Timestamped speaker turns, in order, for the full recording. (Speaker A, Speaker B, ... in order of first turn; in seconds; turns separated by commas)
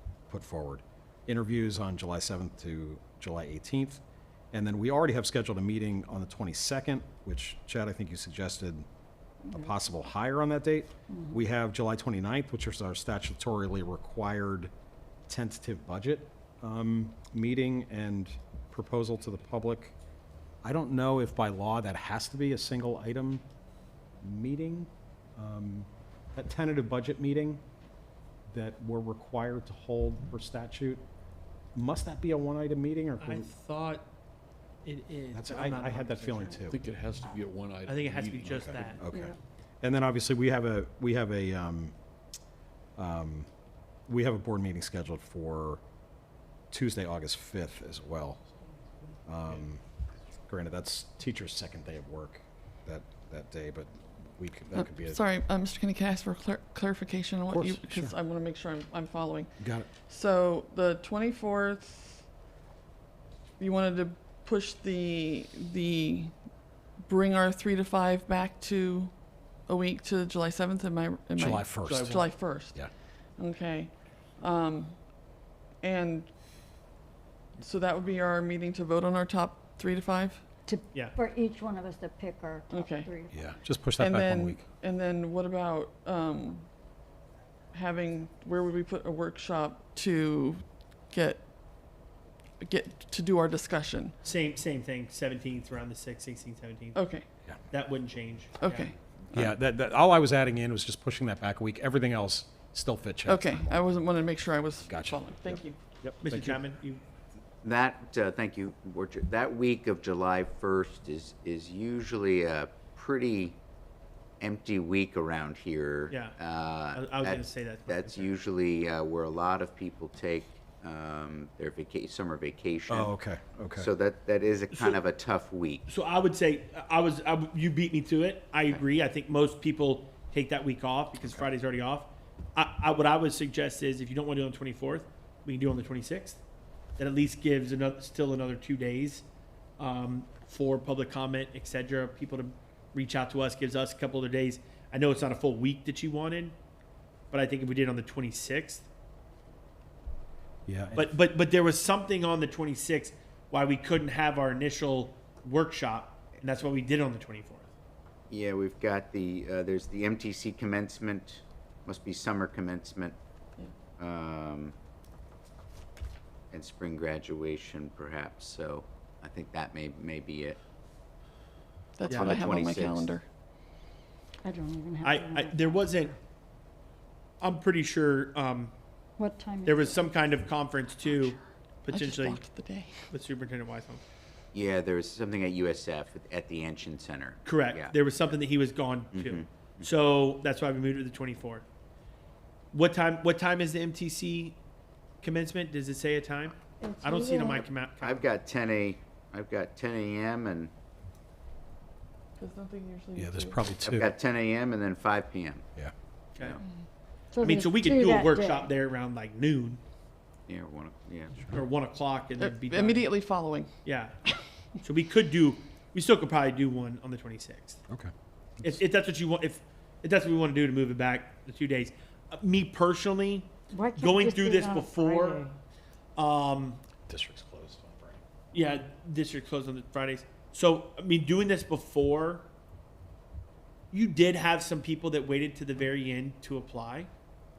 Speaker A: 0.3-8.8, Speaker A: 9.5-14.7, Speaker A: 15.3-19.9, Speaker A: 20.6-23.4, Speaker A: 24.2-27.6, Speaker A: 28.5-31.0, Speaker A: 31.8-33.5, Speaker B: 33.2-34.1, Speaker B: 34.9-36.6, Speaker A: 35.3-36.8, Speaker C: 36.7-39.0, Speaker B: 37.9-39.0, Speaker A: 38.5-42.0, Speaker D: 39.1-39.4, Speaker A: 43.0-43.5, Speaker A: 44.1-45.8, Speaker A: 46.7-48.4, Speaker A: 49.3-49.8, Speaker A: 50.5-55.2, Speaker E: 54.8-62.3, Speaker A: 57.5-58.1, Speaker A: 59.6-59.9, Speaker E: 63.6-66.3, Speaker E: 67.1-69.1, Speaker E: 69.7-72.8, Speaker A: 71.4-72.9, Speaker B: 71.9-72.2, Speaker E: 73.4-75.0, Speaker E: 75.8-76.3, Speaker E: 77.6-80.4, Speaker D: 80.7-83.5, Speaker E: 82.7-83.1, Speaker A: 83.3-84.6, Speaker E: 84.0-86.7, Speaker E: 87.7-91.4, Speaker E: 92.6-94.2, Speaker B: 94.2-97.0, Speaker E: 97.0-97.3, Speaker B: 97.7-98.7, Speaker E: 98.6-98.9, Speaker F: 98.7-98.9, Speaker A: 99.3-103.7, Speaker E: 103.3-105.8, Speaker A: 104.9-106.5, Speaker B: 106.2-107.0, Speaker F: 107.6-113.6, Speaker F: 114.4-123.1, Speaker B: 116.1-116.4, Speaker B: 116.9-118.4, Speaker A: 122.9-123.9, Speaker F: 123.8-125.8, Speaker B: 124.7-125.0, Speaker B: 125.9-136.4, Speaker B: 137.0-139.2, Speaker B: 139.8-146.6, Speaker B: 147.3-148.9, Speaker A: 150.7-151.1, Speaker B: 151.0-157.7, Speaker F: 158.3-163.2, Speaker F: 164.0-164.7, Speaker F: 166.5-170.6, Speaker E: 172.0-173.2, Speaker F: 172.1-173.1, Speaker B: 172.1-172.3, Speaker D: 174.4-175.7, Speaker B: 175.0-176.2, Speaker B: 177.4-178.7, Speaker D: 179.2-180.1, Speaker B: 179.7-182.4, Speaker E: 181.9-183.1, Speaker B: 183.1-184.0, Speaker F: 184.5-188.3, Speaker B: 187.4-191.6, Speaker F: 189.1-189.9, Speaker B: 192.7-194.6, Speaker B: 195.2-198.3, Speaker D: 196.8-197.7, Speaker F: 198.0-200.7, Speaker E: 202.4-203.6, Speaker A: 203.2-204.1, Speaker F: 203.8-205.6, Speaker D: 207.3-208.7, Speaker B: 207.4-209.8, Speaker F: 210.5-211.4, Speaker B: 211.5-213.1, Speaker E: 212.4-213.7, Speaker B: 213.8-214.2, Speaker B: 214.8-217.8, Speaker B: 218.6-225.5, Speaker D: 223.7-225.6, Speaker B: 226.2-226.8, Speaker A: 227.1-228.2, Speaker B: 228.5-232.5, Speaker B: 233.9-237.1